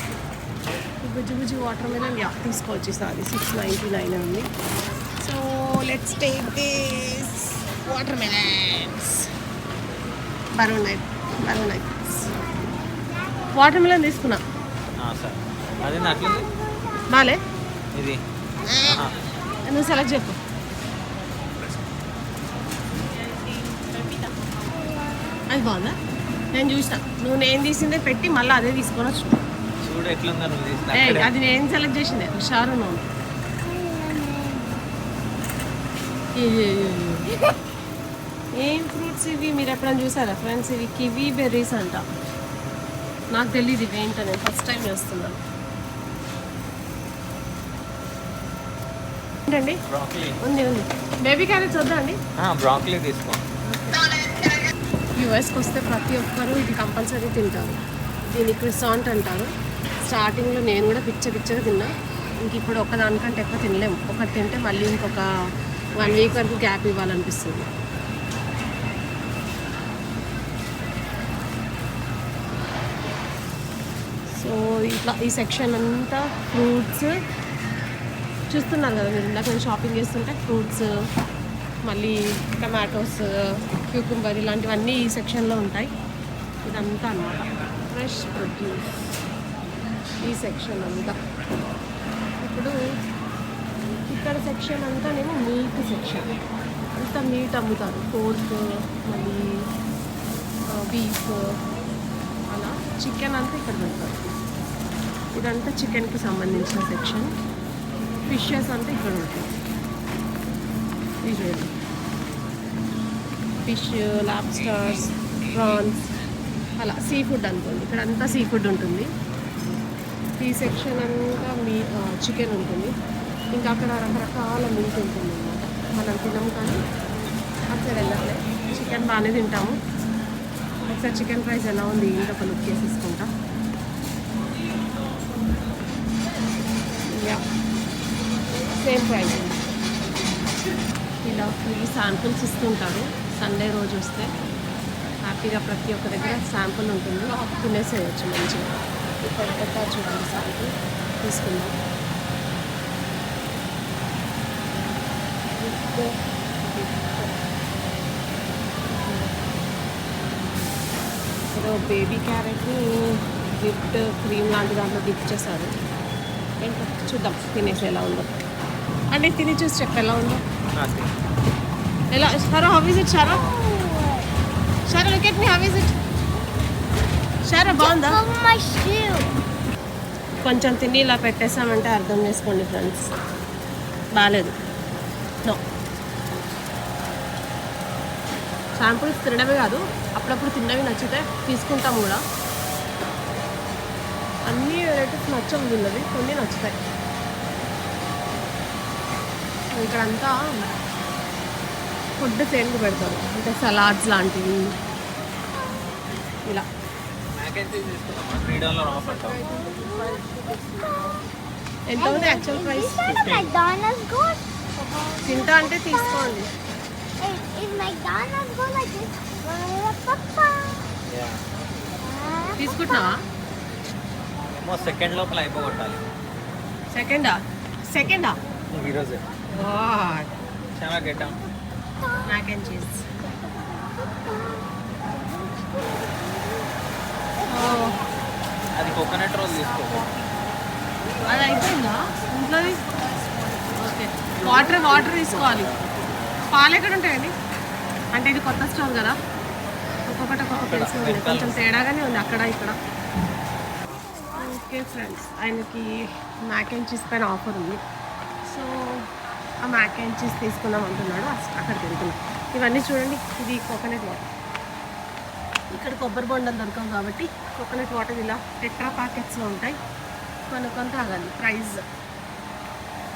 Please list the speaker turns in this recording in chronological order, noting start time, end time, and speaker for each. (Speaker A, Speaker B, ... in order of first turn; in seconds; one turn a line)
Speaker A: 1.0-4.5
Speaker A: 5.2-9.3
Speaker A: 10.6-12.3
Speaker B: 12.4-13.7
Speaker A: 13.5-14.4
Speaker C: 15.0-16.5
Speaker B: 15.8-17.1
Speaker A: 17.1-17.4
Speaker C: 17.9-18.2
Speaker A: 18.6-19.1
Speaker C: 18.8-19.3
Speaker B: 19.3-20.0
Speaker A: 19.6-20.4
Speaker B: 23.3-25.4
Speaker A: 25.5-25.9
Speaker A: 26.5-29.4
Speaker C: 29.8-31.3
Speaker A: 30.9-33.0
Speaker B: 33.6-34.9
Speaker A: 36.3-37.3
Speaker A: 38.6-42.0
Speaker A: 43.3-45.4
Speaker A: 49.5-49.8
Speaker C: 49.9-50.4
Speaker A: 50.4-52.2
Speaker C: 52.4-53.4
Speaker A: 53.6-54.1
Speaker A: 55.2-59.5
Speaker A: 60.1-65.2
Speaker A: 66.0-67.7
Speaker A: 74.3-77.1
Speaker A: 78.5-80.9
Speaker A: 81.8-85.9
Speaker A: 86.6-89.0
Speaker A: 90.2-91.2
Speaker A: 92.4-92.8
Speaker A: 94.1-96.3
Speaker A: 96.9-99.5
Speaker A: 100.7-101.5
Speaker A: 102.5-104.4
Speaker A: 105.3-107.3
Speaker A: 108.3-109.5
Speaker A: 111.2-111.7
Speaker A: 113.6-116.1
Speaker A: 116.8-119.1
Speaker A: 120.4-122.9
Speaker A: 123.5-126.8
Speaker A: 127.7-129.8
Speaker A: 130.8-133.3
Speaker A: 137.1-137.4
Speaker A: 138.8-139.6
Speaker A: 141.2-144.3
Speaker A: 145.2-151.8
Speaker A: 155.5-157.3
Speaker A: 159.0-159.3
Speaker A: 161.5-165.7
Speaker A: 166.6-168.3
Speaker A: 169.1-170.4
Speaker C: 170.8-171.1
Speaker A: 172.1-173.4
Speaker B: 173.2-174.3
Speaker A: 174.9-175.9
Speaker A: 177.5-178.2
Speaker B: 177.7-179.3
Speaker A: 180.4-183.1
Speaker A: 184.1-184.5
Speaker A: 188.8-192.2
Speaker A: 194.5-196.8
Speaker A: 199.7-200.7
Speaker A: 202.2-204.7
Speaker B: 205.5-206.0
Speaker C: 207.3-209.4
Speaker A: 208.9-210.3
Speaker B: 209.4-211.2
Speaker A: 211.9-213.2
Speaker B: 212.0-216.4
Speaker C: 213.0-213.5
Speaker A: 215.2-216.5
Speaker B: 217.2-220.9
Speaker C: 221.1-221.4
Speaker B: 222.0-223.1
Speaker A: 222.6-223.2
Speaker C: 224.5-226.0
Speaker A: 226.9-228.4
Speaker C: 228.7-229.2
Speaker A: 229.5-230.3
Speaker C: 230.8-231.4
Speaker B: 232.0-232.4
Speaker A: 232.2-233.0
Speaker B: 233.2-236.8
Speaker B: 237.3-239.7
Speaker A: 237.5-238.0
Speaker C: 238.7-240.1
Speaker B: 241.1-241.5
Speaker A: 241.2-242.8
Speaker A: 243.6-245.7
Speaker A: 246.5-247.3
Speaker A: 248.1-249.2
Speaker A: 250.1-252.8
Speaker C: 250.5-251.6
Speaker B: 253.9-254.6
Speaker A: 254.3-257.8
Speaker A: 258.4-259.1
Speaker A: 259.6-264.3
Speaker A: 265.7-269.8
Speaker A: 270.5-271.8